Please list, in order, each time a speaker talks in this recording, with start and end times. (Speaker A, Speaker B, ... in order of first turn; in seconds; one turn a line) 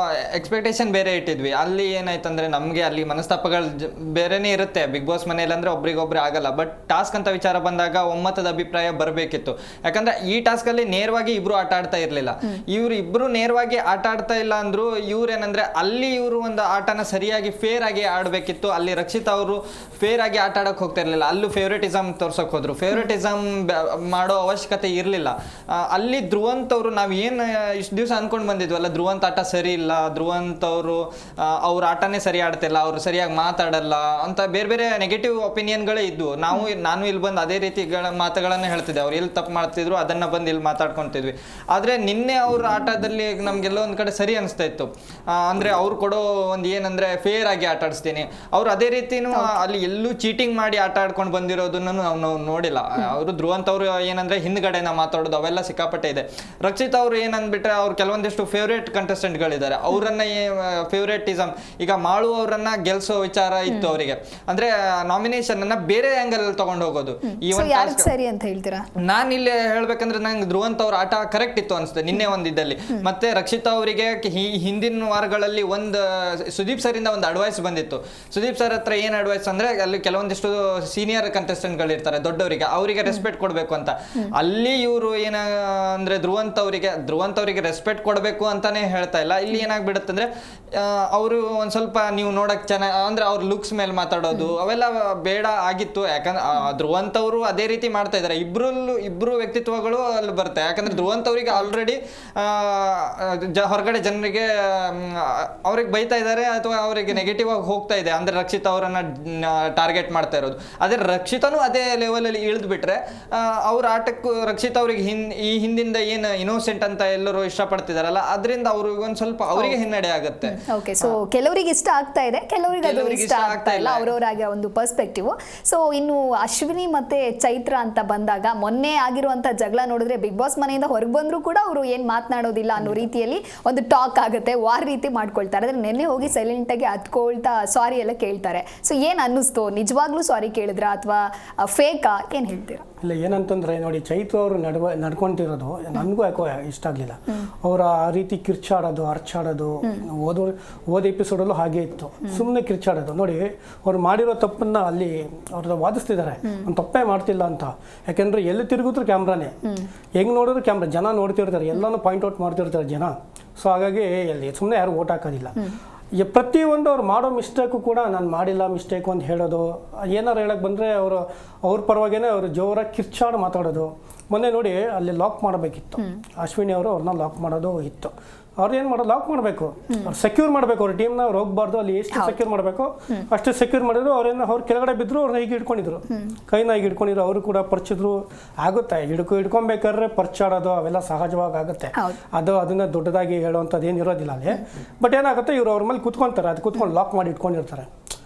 Speaker A: 0.3-68.1
Speaker B: 49.3-49.6
Speaker B: 63.7-64.0
Speaker B: 67.5-68.9
Speaker A: 69.0-121.2
Speaker B: 120.5-142.8
Speaker A: 122.8-124.1
Speaker C: 143.0-159.6
Speaker B: 159.6-159.9
Speaker C: 160.2-165.6
Speaker C: 166.2-197.9
Speaker B: 182.1-182.4
Speaker B: 186.1-186.4